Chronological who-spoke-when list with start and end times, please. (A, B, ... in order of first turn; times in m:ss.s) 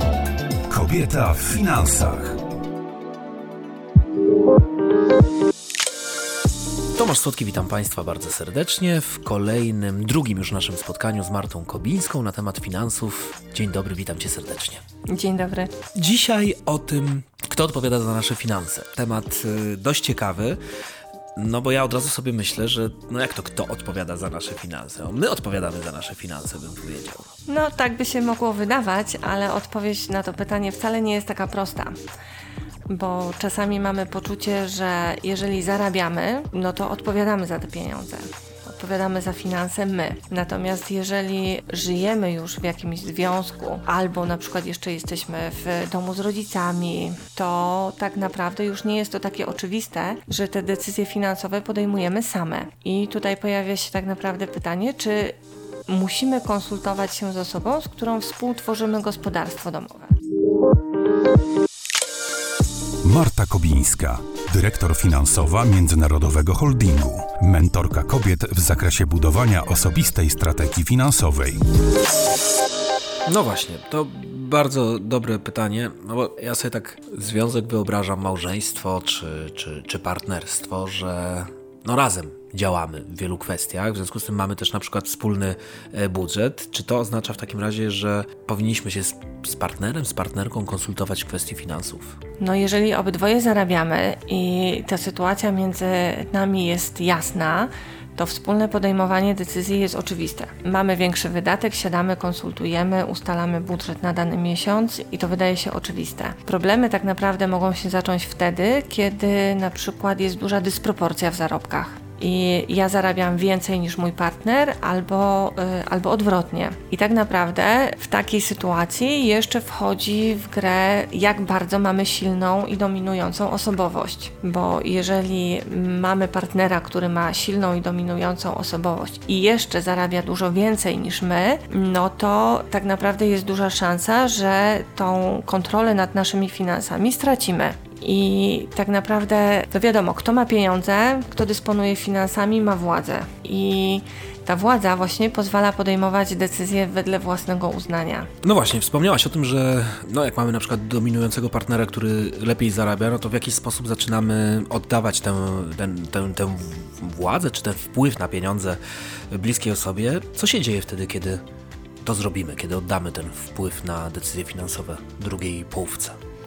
0:00.7-0:02.4 A
0:07.0-0:14.8 B
0:15.1-0:15.7 C
0:16.0-0:20.6 B
0:21.4-0:27.3 B
0:27.5-0:31.9 C
0:32.9-0:55.4 C
0:55.9-1:00.2 C
1:03.0-1:11.6 A
1:13.2-1:32.2 B
1:32.4-2:28.3 C
2:28.4-2:38.8 B
2:39.3-2:41.4 B
2:42.0-2:46.2 B